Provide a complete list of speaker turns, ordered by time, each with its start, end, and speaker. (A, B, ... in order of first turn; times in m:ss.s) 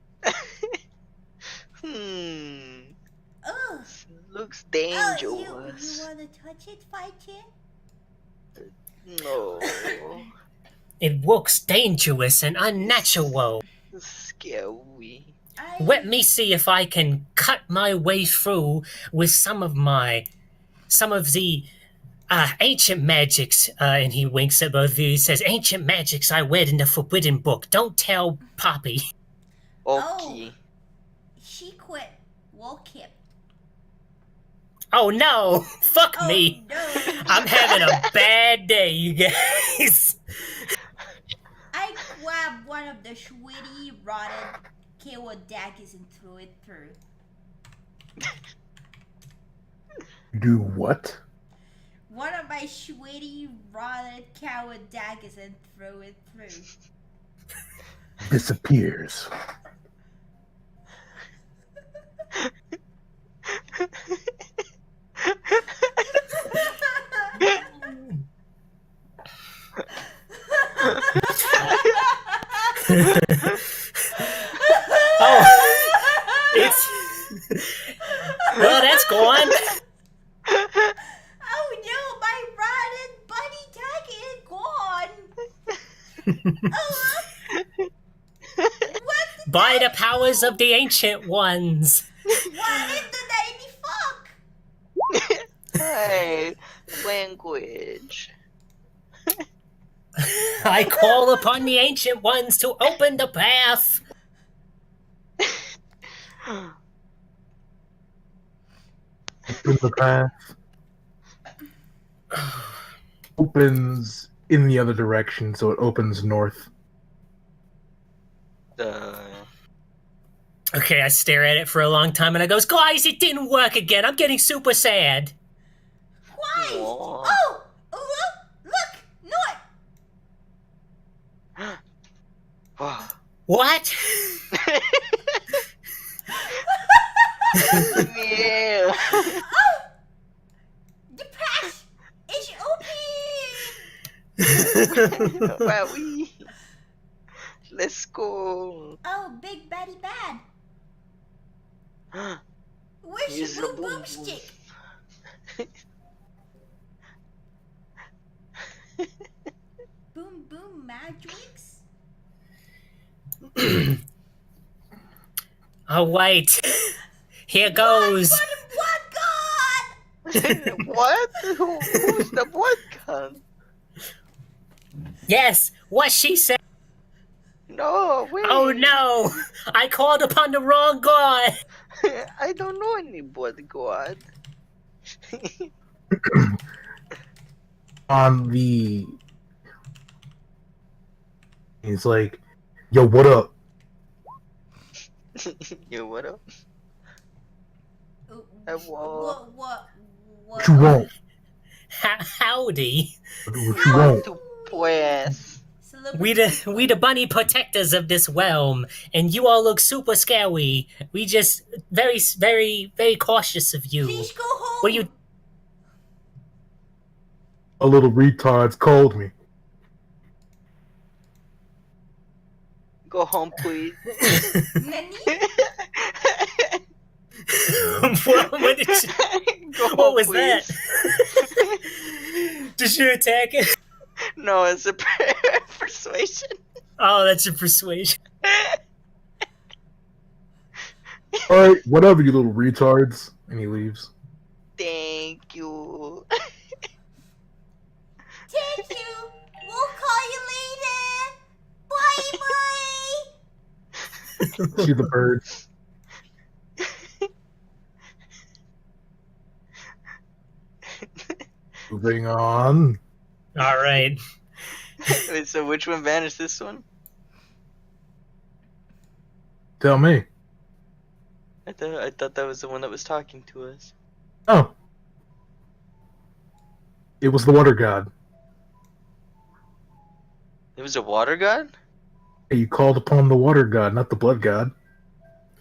0:00.3-0:00.7 A
0:01.8-0:02.9 A
0:03.4-0:04.0 B
0:04.0-0:06.1 A
0:04.9-0:07.5 B
0:08.6-0:10.3 A
0:09.6-0:10.0 B
0:11.0-0:13.6 C
0:12.8-0:13.3 A
0:13.9-0:15.4 A
0:15.6-0:16.2 B
0:15.8-0:20.3 C
0:20.9-0:21.7 C
0:22.3-0:29.0 C
0:29.8-0:30.6 A
0:30.0-0:30.5 B
0:31.4-0:33.2 B
0:34.9-0:40.7 C
0:36.2-0:37.7 B
0:37.3-0:37.8 A
0:41.7-0:47.0 B
0:50.3-0:51.2 D
0:52.1-0:56.7 B
0:58.2-0:59.3 D
1:05.3-1:05.8 A
1:06.4-1:06.8 B
1:07.8-1:08.2 C
1:10.6-1:12.7 B
1:12.9-1:13.6 C
1:14.3-1:16.7 B
1:15.2-1:16.0 C
1:16.5-1:17.9 C
1:18.0-1:19.6 B
1:18.5-1:19.6 C
1:21.4-1:25.3 B
1:26.6-1:27.3 B
1:28.8-1:30.6 B
1:29.5-1:32.0 C
1:32.4-1:34.3 B
1:35.8-1:38.3 A
1:40.2-1:44.0 C
1:49.5-1:50.5 D
1:53.4-1:56.7 D
1:58.8-1:59.5 A
2:00.8-2:05.3 C
2:06.3-2:09.6 B
2:06.6-2:07.4 A
2:12.8-2:13.2 A
2:13.5-2:14.4 C
2:14.6-2:15.3 A
2:17.5-2:18.0 B
2:17.8-2:19.4 A
2:19.2-2:19.8 B
2:21.1-2:23.8 B
2:24.5-2:25.2 C
2:24.5-2:26.5 A
2:27.7-2:29.0 A
2:29.0-2:30.4 B
2:32.1-2:32.4 A
2:33.0-2:34.5 B
2:33.3-2:34.5 A
2:40.1-2:41.8 B
2:43.6-2:43.8 C
2:45.9-2:46.9 C
2:47.5-2:48.4 C
2:47.6-2:49.9 B
2:50.3-2:53.4 A
2:50.4-2:50.8 C
2:55.3-2:56.6 C
2:57.7-2:59.0 A
2:58.4-3:01.5 C
3:02.0-3:04.2 A
3:05.3-3:05.7 A
3:06.2-3:06.6 D
3:08.1-3:09.2 D
3:11.8-3:12.4 D
3:12.9-3:13.5 D
3:15.4-3:16.4 A
3:18.3-3:21.1 B
3:18.7-3:19.4 A
3:20.6-3:21.1 D
3:21.9-3:23.1 C
3:23.5-3:24.2 D
3:23.7-3:26.9 B
3:23.8-3:25.6 A
3:26.1-3:34.3 C
3:34.0-3:35.1 B
3:34.8-3:35.1 C
3:37.8-3:39.3 D
3:43.1-3:44.2 A
3:44.3-3:44.6 C
3:44.8-3:45.4 B
3:45.4-3:46.8 A
3:47.5-3:49.1 C
3:48.6-3:50.8 A
3:49.9-3:51.7 C
3:52.3-3:53.6 C
3:54.4-3:56.5 A
3:57.0-3:58.2 C
3:58.5-3:58.8 A
4:01.5-4:04.1 D
4:04.8-4:06.2 A
4:08.5-4:11.4 B
4:11.9-4:13.2 B
4:14.4-4:14.9 C
4:14.8-4:15.5 D
4:21.0-4:21.4 A
4:21.9-4:23.0 D
4:23.6-4:24.2 C
4:25.0-4:26.8 A
4:29.8-4:30.2 D
4:31.6-4:33.9 A
4:34.5-4:34.7 D
4:37.2-4:38.1 D
4:40.8-4:41.7 A
4:42.5-4:44.7 D